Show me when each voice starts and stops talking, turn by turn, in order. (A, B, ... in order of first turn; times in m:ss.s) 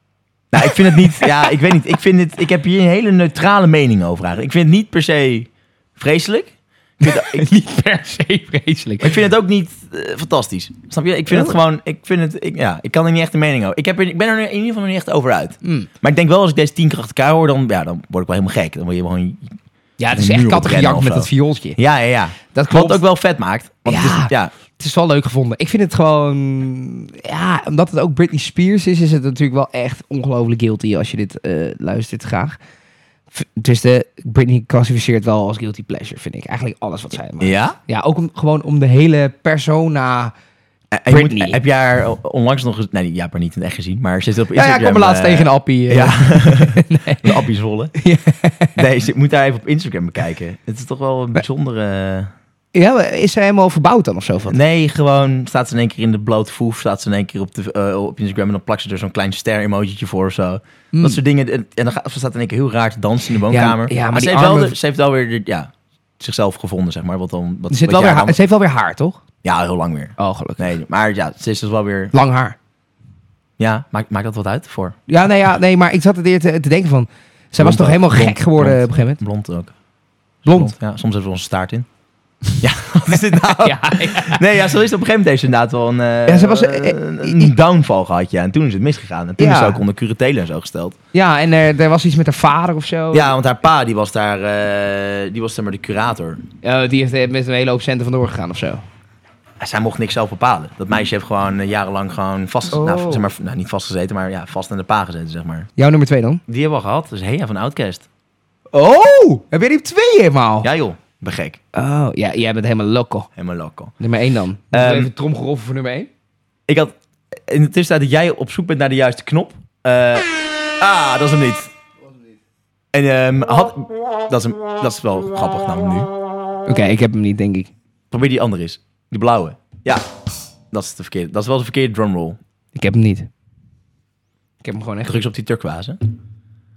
0:00.5-0:07.4 A
0:07.0-0:09.2 B
0:09.0-0:19.5 A
0:11.3-0:11.6 B
0:15.6-0:15.9 B
0:20.0-0:21.8 B
0:20.1-0:24.5 A
0:22.5-0:23.0 B
0:23.8-0:32.6 B
0:33.3-0:40.3 B
0:37.4-0:37.8 A
0:40.9-0:47.9 A
0:41.1-0:41.6 B
0:44.5-0:47.3 B
0:48.0-0:48.8 B
0:48.8-0:52.3 A
0:52.7-0:54.6 B
0:54.5-1:08.4 A
1:00.9-1:01.2 B
1:03.5-1:04.8 B
1:07.7-1:09.2 B
1:09.4-1:12.1 A
1:10.2-1:10.7 B
1:12.1-1:12.6 B
1:13.6-1:15.0 A
1:15.1-1:19.2 B
1:17.6-1:19.7 A
1:20.4-1:21.9 A
1:20.5-1:20.7 B
1:22.6-1:31.0 A
1:23.5-1:24.4 B
1:26.3-1:27.5 B
1:29.4-1:29.8 B
1:31.1-1:33.3 B
1:33.1-1:36.4 A
1:36.6-1:38.8 B
1:39.6-1:45.7 A
1:42.7-1:43.3 B
1:45.8-1:46.4 B
1:46.5-1:48.0 A
1:48.7-1:50.7 B
1:50.6-1:51.6 A
1:51.7-1:53.3 B
1:53.4-1:53.9 A
1:54.0-1:56.1 B
1:54.7-1:55.1 A
1:56.7-2:01.7 A
2:02.9-2:06.1 A
2:06.7-2:07.7 B
2:08.1-2:10.0 A
2:10.7-2:12.4 A
2:12.7-2:13.3 B
2:14.6-2:15.1 B
2:15.1-2:16.0 A